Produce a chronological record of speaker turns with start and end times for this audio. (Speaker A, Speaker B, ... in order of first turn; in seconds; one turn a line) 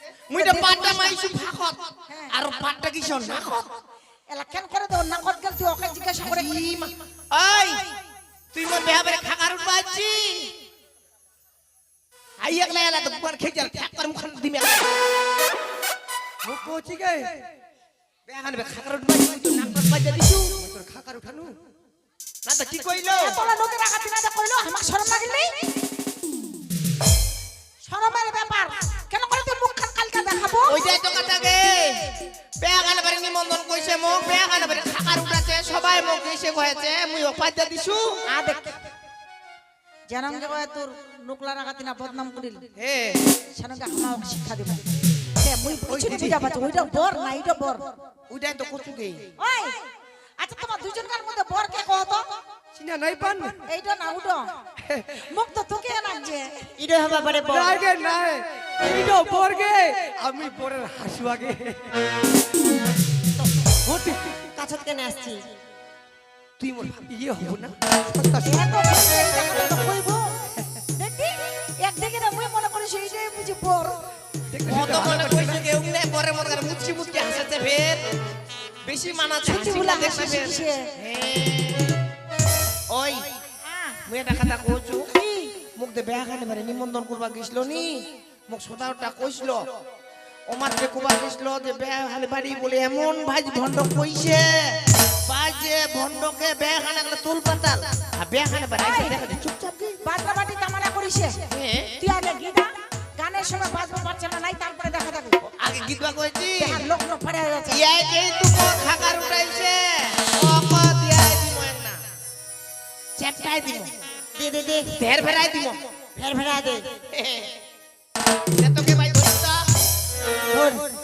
Speaker A: 0.3-1.8
Speaker B: 0.3-1.1
Speaker A: 2.3-3.8
Speaker B: 4.3-6.5
Speaker A: 6.2-7.9
Speaker A: 8.5-10.5
Speaker A: 12.4-14.9
Speaker C: 16.4-17.3
Speaker A: 18.3-20.5
Speaker C: 20.6-21.5
Speaker A: 22.4-23.4
Speaker B: 23.2-25.5
Speaker B: 27.8-30.9
Speaker A: 30.7-38.2
Speaker B: 38.3-38.8
Speaker B: 40.1-42.6
Speaker A: 42.8-43.2
Speaker B: 43.5-44.8
Speaker B: 45.4-47.8
Speaker C: 46.0-46.3
Speaker A: 48.3-49.3
Speaker B: 49.4-49.8
Speaker B: 50.4-52.2
Speaker C: 52.7-53.5
Speaker B: 53.7-54.5
Speaker C: 54.8-55.1
Speaker B: 55.3-56.6
Speaker D: 56.8-57.8
Speaker C: 57.5-61.9
Speaker C: 63.9-64.2
Speaker D: 64.5-65.4
Speaker C: 66.6-68.6
Speaker B: 68.4-70.3
Speaker B: 70.9-74.0
Speaker C: 74.5-75.6
Speaker A: 74.7-78.1
Speaker A: 78.8-81.9
Speaker B: 79.5-80.8
Speaker A: 82.9-83.2
Speaker B: 83.6-84.0
Speaker A: 84.1-85.1
Speaker B: 85.1-85.5
Speaker A: 85.8-89.6
Speaker A: 90.5-94.5
Speaker A: 95.3-100.0
Speaker B: 98.8-99.4
Speaker B: 100.0-101.4
Speaker A: 101.5-101.9
Speaker B: 102.0-105.4
Speaker A: 105.5-106.8
Speaker B: 106.6-107.8
Speaker A: 107.7-112.0
Speaker A: 113.2-113.9
Speaker D: 114.3-114.9
Speaker A: 115.0-115.8
Speaker D: 116.2-116.8
Speaker A: 117.1-117.5
Speaker A: 118.6-119.6
Speaker D: 120.5-120.8